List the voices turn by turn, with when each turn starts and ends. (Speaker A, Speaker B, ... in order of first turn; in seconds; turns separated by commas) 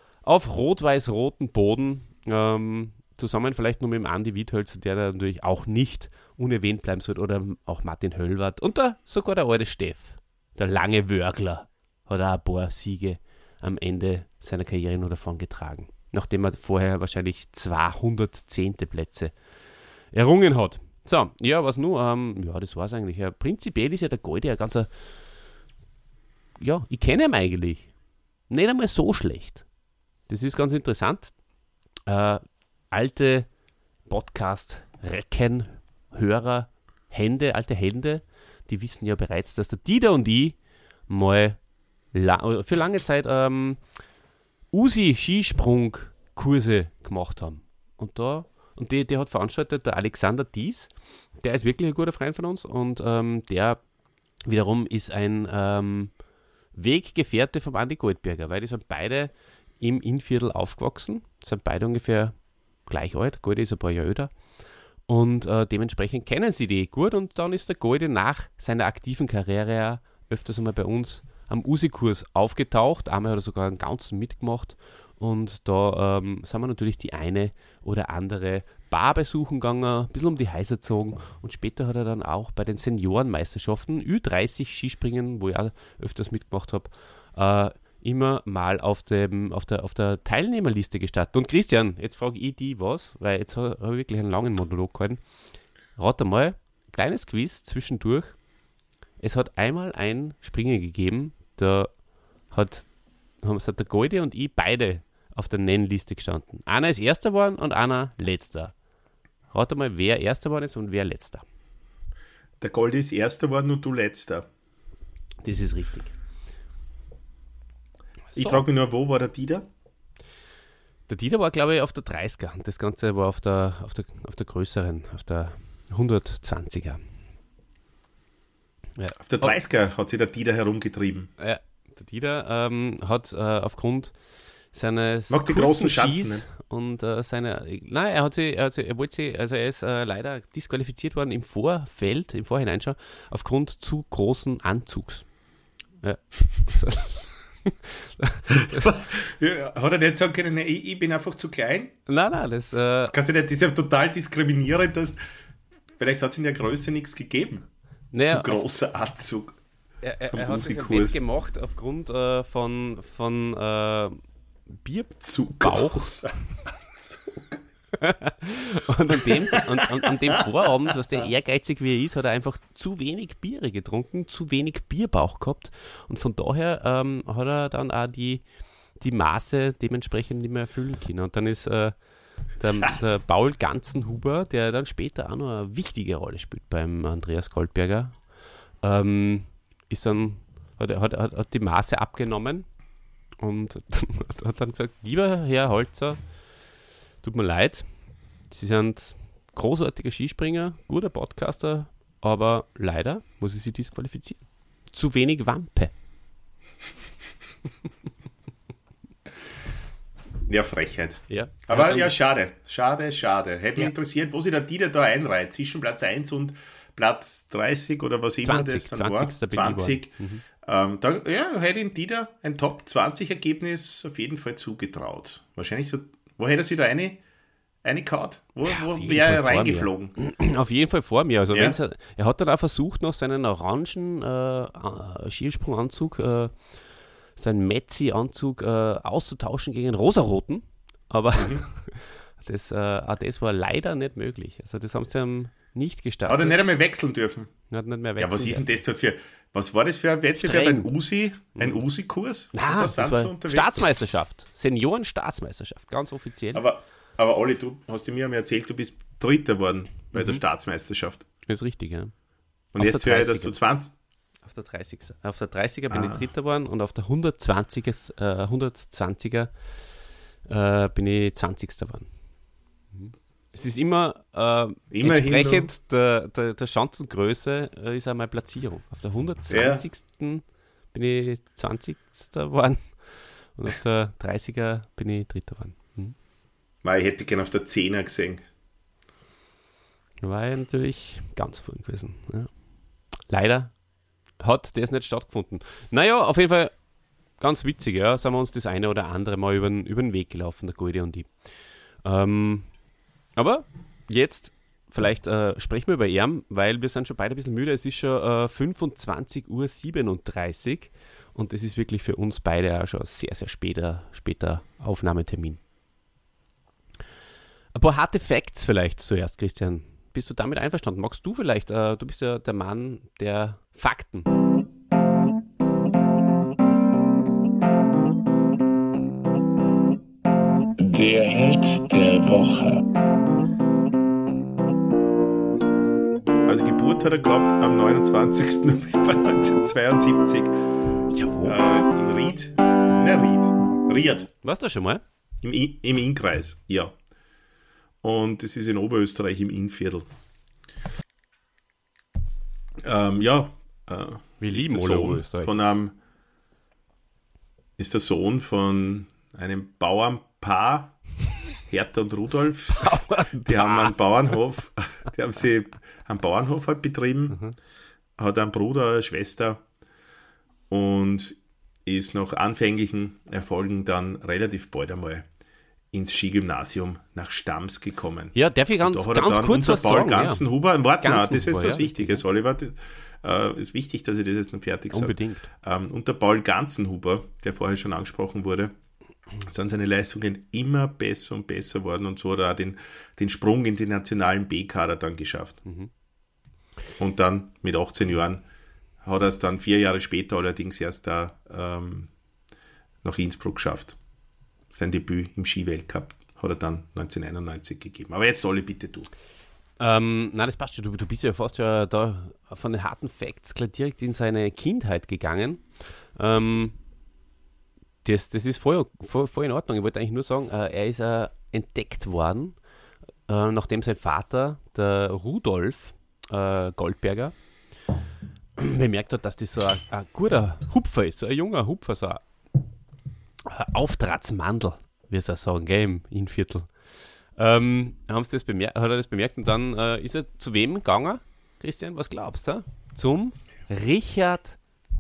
Speaker A: 0.2-19.3, Speaker A: 20.1-24.9, Speaker A: 26.6-27.9, Speaker A: 28.5-29.6, Speaker A: 30.3-31.3, Speaker A: 32.1-33.5, Speaker A: 34.1-41.6, Speaker A: 42.1-43.8, Speaker A: 44.7-53.8, Speaker A: 54.4-56.1, Speaker A: 56.7-64.3, Speaker A: 65.1-95.2, Speaker A: 95.9-98.4, Speaker A: 99.2-101.9, Speaker A: 102.5-102.9, Speaker A: 103.4-108.7, Speaker A: 109.5-111.4, Speaker B: 112.6-114.5, Speaker A: 115.4-116.1, Speaker A: 118.3-118.6, Speaker B: 118.3-119.7, Speaker A: 121.1-127.0, Speaker A: 129.0-129.6, Speaker B: 129.2-131.3, Speaker A: 131.4-134.2, Speaker A: 134.7-145.3, Speaker B: 135.3-136.4, Speaker A: 146.0-148.9, Speaker B: 148.7-152.0, Speaker A: 152.1-153.1, Speaker B: 153.1-155.2, Speaker B: 156.0-157.7, Speaker A: 158.1-158.7, Speaker B: 158.3-159.6, Speaker A: 160.0-164.2, Speaker B: 160.3-161.2, Speaker A: 164.8-166.1, Speaker B: 165.2-166.3, Speaker B: 166.9-167.6, Speaker A: 168.0-178.4, Speaker B: 169.5-170.0, Speaker A: 179.0-182.0, Speaker A: 182.6-188.3, Speaker A: 188.8-192.7, Speaker A: 193.4-196.2, Speaker A: 197.2-197.9, Speaker A: 198.5-205.9, Speaker B: 210.5-227.2, Speaker A: 211.3-212.1, Speaker A: 218.4-220.4, Speaker B: 227.8-230.1, Speaker A: 228.7-236.7, Speaker B: 231.5-231.8, Speaker A: 237.3-246.6, Speaker B: 241.3-241.6, Speaker B: 246.2-247.5, Speaker A: 247.7-248.6, Speaker B: 248.2-253.7, Speaker A: 250.4-250.9, Speaker A: 251.6-251.8, Speaker A: 252.5-256.6, Speaker B: 256.5-261.3, Speaker A: 260.1-260.4, Speaker A: 261.5-262.1, Speaker B: 262.7-263.9, Speaker A: 262.8-263.6, Speaker A: 264.4-269.5, Speaker B: 265.9-266.3, Speaker A: 270.5-272.1, Speaker A: 272.9-286.2, Speaker B: 274.9-275.7, Speaker B: 279.5-279.8, Speaker B: 286.8-288.4, Speaker A: 290.2-292.5, Speaker A: 293.2-293.8, Speaker A: 294.4-296.8, Speaker A: 297.4-301.3, Speaker A: 302.0-302.7, Speaker A: 303.3-315.6, Speaker A: 317.7-324.3, Speaker B: 330.9-332.6, Speaker B: 336.4-340.6, Speaker A: 341.1-341.8, Speaker B: 341.4-344.3, Speaker A: 344.4-345.0, Speaker B: 345.4-346.9, Speaker B: 348.0-350.1, Speaker B: 352.8-355.9, Speaker A: 354.4-355.6, Speaker B: 357.8-361.0, Speaker B: 361.7-362.9, Speaker A: 362.7-364.0, Speaker B: 363.4-367.4, Speaker B: 368.2-369.6, Speaker B: 370.7-375.3, Speaker B: 375.9-388.8, Speaker A: 378.3-380.4, Speaker A: 381.0-382.2, Speaker A: 384.9-385.5, Speaker B: 389.4-395.6, Speaker A: 395.6-395.9, Speaker B: 397.0-398.4, Speaker B: 399.0-402.1, Speaker B: 403.0-404.0, Speaker B: 404.7-409.1, Speaker A: 409.8-416.8, Speaker A: 418.0-422.6, Speaker A: 423.3-427.4, Speaker A: 428.6-432.2, Speaker A: 433.5-436.8, Speaker A: 437.3-444.6